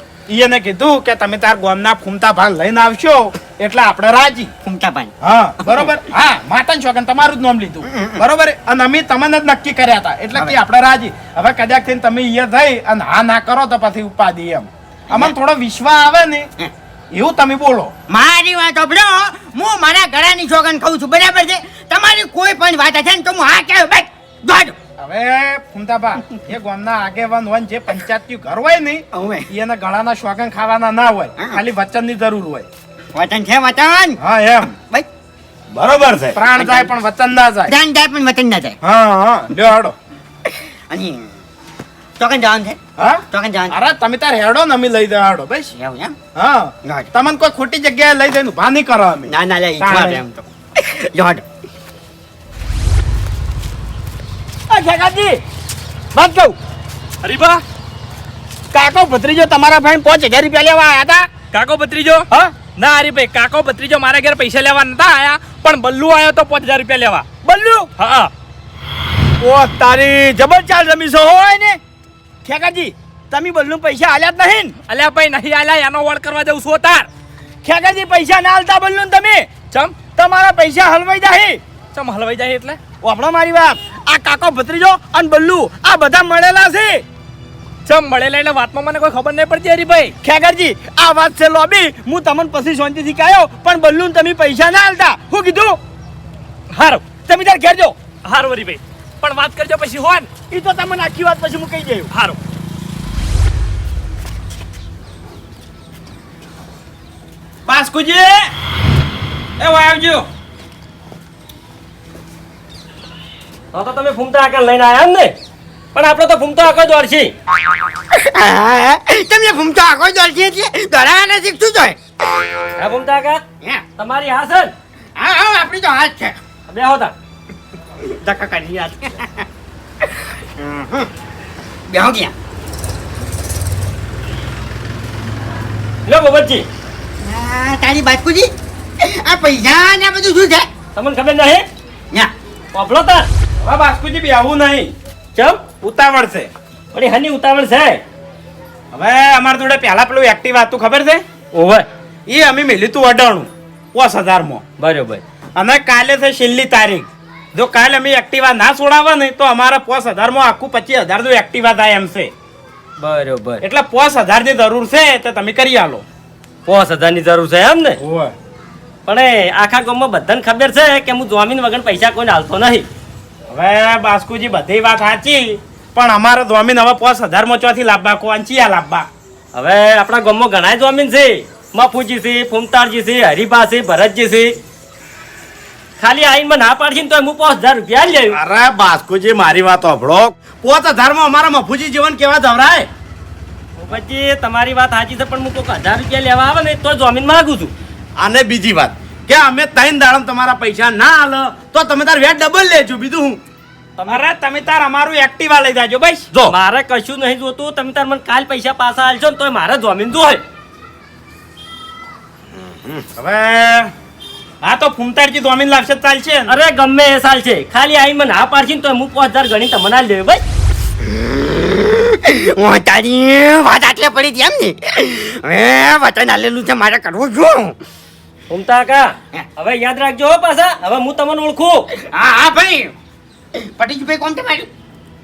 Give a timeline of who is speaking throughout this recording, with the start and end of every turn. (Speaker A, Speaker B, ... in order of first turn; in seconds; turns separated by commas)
Speaker A: 0.3-4.5, Speaker B: 4.6-5.1, Speaker A: 5.2-16.5, Speaker B: 7.8-8.2, Speaker A: 17.1-17.9, Speaker B: 18.1-24.8, Speaker A: 25.0-32.7, Speaker B: 29.1-29.5, Speaker B: 33.1-34.2, Speaker A: 34.2-34.7, Speaker C: 35.7-36.4, Speaker A: 36.3-37.7, Speaker B: 36.5-36.9, Speaker B: 37.7-38.8, Speaker A: 38.8-39.9, Speaker B: 40.9-41.3, Speaker B: 42.2-42.8, Speaker A: 43.0-45.7, Speaker B: 43.3-43.8, Speaker B: 45.7-46.1, Speaker A: 46.4-50.2, Speaker B: 49.3-51.4, Speaker D: 54.7-55.4, Speaker D: 56.1-56.5, Speaker E: 57.2-57.6, Speaker D: 58.7-61.3, Speaker E: 61.5-67.2, Speaker D: 67.4-67.9, Speaker E: 68.0-68.3, Speaker D: 69.4-71.8, Speaker D: 72.4-74.8, Speaker E: 74.9-77.1, Speaker D: 77.6-79.5, Speaker E: 79.7-80.0, Speaker D: 80.1-81.6, Speaker E: 81.9-82.8, Speaker D: 83.0-87.0, Speaker E: 87.8-90.1, Speaker D: 90.2-95.8, Speaker E: 96.7-97.1, Speaker D: 97.2-98.0, Speaker E: 98.2-100.3, Speaker D: 100.5-102.1, Speaker E: 102.1-102.4, Speaker A: 107.7-108.5, Speaker A: 109.6-110.3, Speaker F: 113.7-115.3, Speaker F: 115.9-117.3, Speaker B: 118.1-122.0, Speaker F: 122.8-123.4, Speaker F: 124.0-124.7, Speaker B: 125.2-126.4, Speaker F: 126.7-127.1, Speaker B: 128.0-129.4, Speaker B: 130.6-131.1, Speaker B: 131.9-132.3, Speaker F: 136.1-136.6, Speaker B: 137.2-140.7, Speaker F: 140.9-141.7, Speaker F: 142.7-143.3, Speaker A: 143.6-144.9, Speaker F: 145.3-145.6, Speaker A: 145.8-146.5, Speaker F: 146.9-148.0, Speaker A: 148.9-151.2, Speaker F: 151.5-151.8, Speaker A: 152.3-154.6, Speaker F: 154.8-155.2, Speaker A: 155.6-162.3, Speaker F: 163.0-163.6, Speaker A: 163.6-166.0, Speaker F: 166.7-168.0, Speaker A: 168.0-168.3, Speaker F: 169.1-172.8, Speaker A: 173.5-179.1, Speaker F: 179.5-184.6, Speaker F: 186.0-188.4, Speaker C: 188.3-192.9, Speaker F: 193.8-197.7, Speaker C: 198.2-203.4, Speaker A: 204.1-206.3, Speaker F: 206.5-210.4, Speaker A: 213.2-213.9, Speaker A: 214.6-216.5, Speaker F: 216.5-220.4, Speaker B: 221.0-227.7, Speaker F: 228.5-231.9, Speaker B: 232.1-232.9, Speaker B: 233.5-234.7